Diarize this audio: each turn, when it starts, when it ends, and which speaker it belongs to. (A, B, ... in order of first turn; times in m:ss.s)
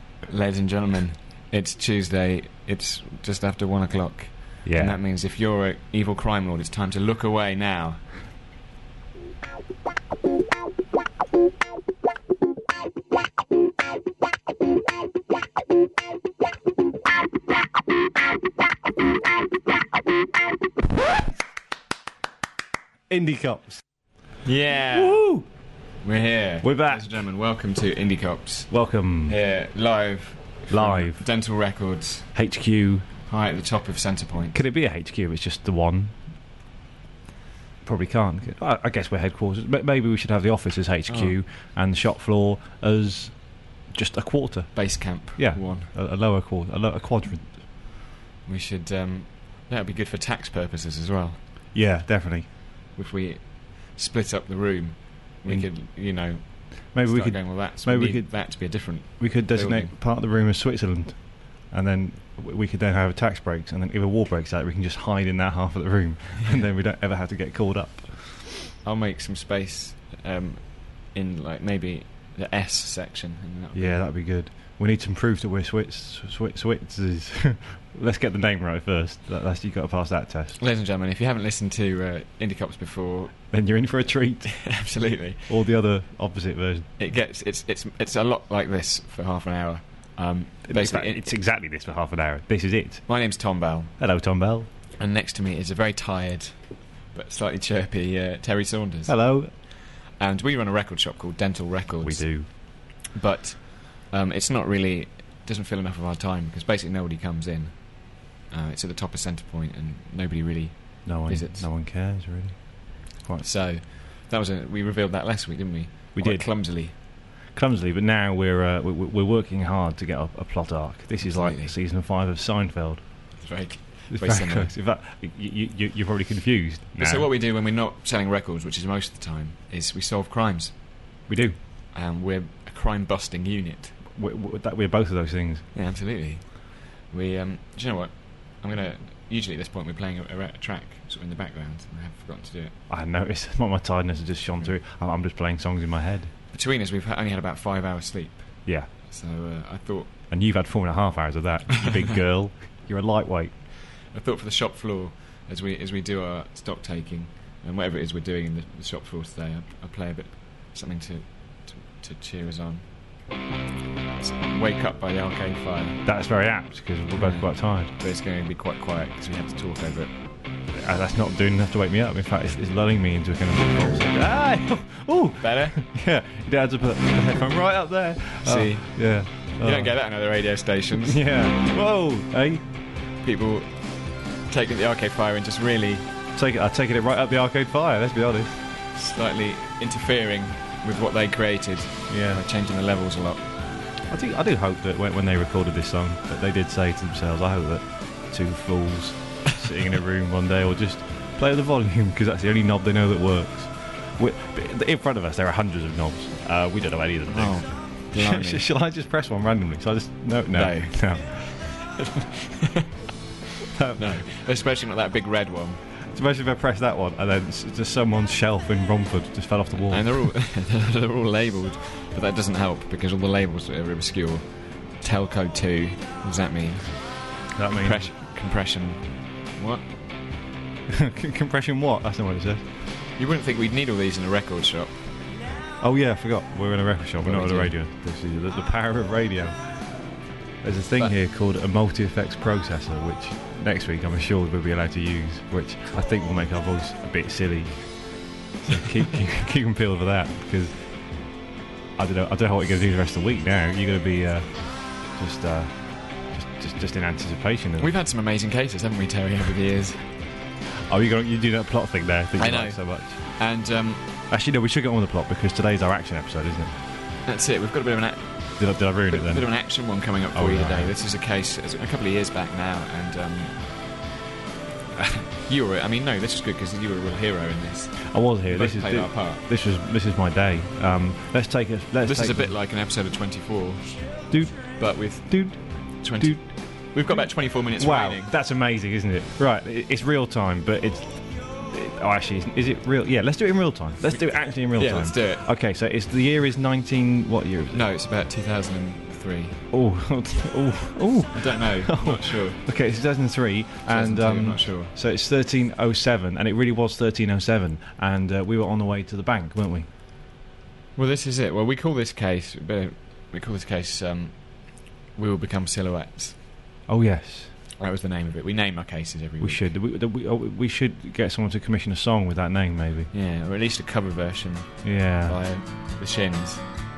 0:00.3-0:08.1 A
0:04.6-0:05.0 B
0:23.1-0:24.0 B
0:24.4-0:25.2 A
0:24.9-0:25.4 B
0:26.0-0:32.3 A
0:26.6-0:27.1 B
0:28.7-0:29.4 B
0:30.7-0:31.2 B
0:32.3-0:33.1 B
0:33.3-0:34.6 A
0:34.5-0:36.3 B
0:37.8-0:47.6 B
0:41.1-0:41.3 A
0:44.7-0:45.9 A
0:48.4-0:51.4 A
0:51.7-0:52.5 B
0:52.9-0:59.9 A
0:55.4-1:08.7 B
1:08.8-1:14.0 A
1:13.7-1:20.6 B
1:20.6-1:23.5 A
1:23.5-1:24.8 B
1:24.4-1:25.5 A
1:25.5-1:26.9 B
1:27.0-1:31.2 A
1:30.7-1:33.2 B
1:33.1-1:33.9 A
1:34.0-1:34.7 B
1:34.9-1:51.7 A
1:39.0-1:39.5 B
1:42.0-1:42.5 B
1:51.0-1:53.4 B
1:53.4-1:56.9 A
1:56.1-2:03.4 B
2:01.2-2:01.7 A
2:03.4-2:04.7 A
2:04.1-2:07.3 B
2:07.0-2:10.8 A
2:11.3-2:11.6 B
2:11.9-2:14.0 A
2:14.1-2:15.7 B
2:15.7-2:22.8 A
2:22.9-2:26.3 B
2:26.5-2:30.1 A
2:28.6-2:28.9 B
2:30.3-2:33.6 B
2:34.0-2:42.9 A
2:44.2-2:46.0 A
2:46.0-2:47.9 B
2:47.2-2:50.1 A
2:50.7-3:00.0 B
2:55.4-2:55.8 A
2:58.4-3:01.2 A
3:01.0-3:02.6 B
3:03.2-3:06.1 A
3:06.3-3:08.6 B
3:08.9-3:13.5 A
3:12.1-3:12.4 B
3:14.1-3:31.6 B
3:27.3-3:28.6 A
3:30.5-3:32.9 A
3:33.7-3:34.2 B
3:33.9-3:35.8 A
3:36.0-3:40.3 B
3:39.9-3:49.9 A
3:47.5-3:48.1 B
3:50.9-3:52.7 B
3:53.1-3:55.0 A
3:55.8-3:59.8 B
3:57.2-3:57.7 A
4:00.6-4:11.3 B
4:12.0-4:17.9 B
4:17.8-4:20.0 A
4:20.9-4:23.5 B
4:22.4-4:24.0 A
4:24.3-4:26.8 B
4:27.2-4:34.0 A
4:28.6-4:29.8 B
4:30.3-4:30.9 B
4:34.9-4:39.4 A
4:38.0-4:42.5 B
4:42.0-4:48.4 A
4:44.3-4:46.9 B
4:47.8-4:57.8 B
4:54.1-4:55.5 A
4:57.7-4:59.6 A
4:59.7-5:09.9 B
5:01.3-5:02.8 A
5:03.8-5:04.9 A
5:11.0-5:16.4 A
5:16.9-5:17.5 B
5:17.8-5:19.7 A
5:19.4-5:23.1 B
5:23.1-5:26.6 A
5:24.8-5:25.4 B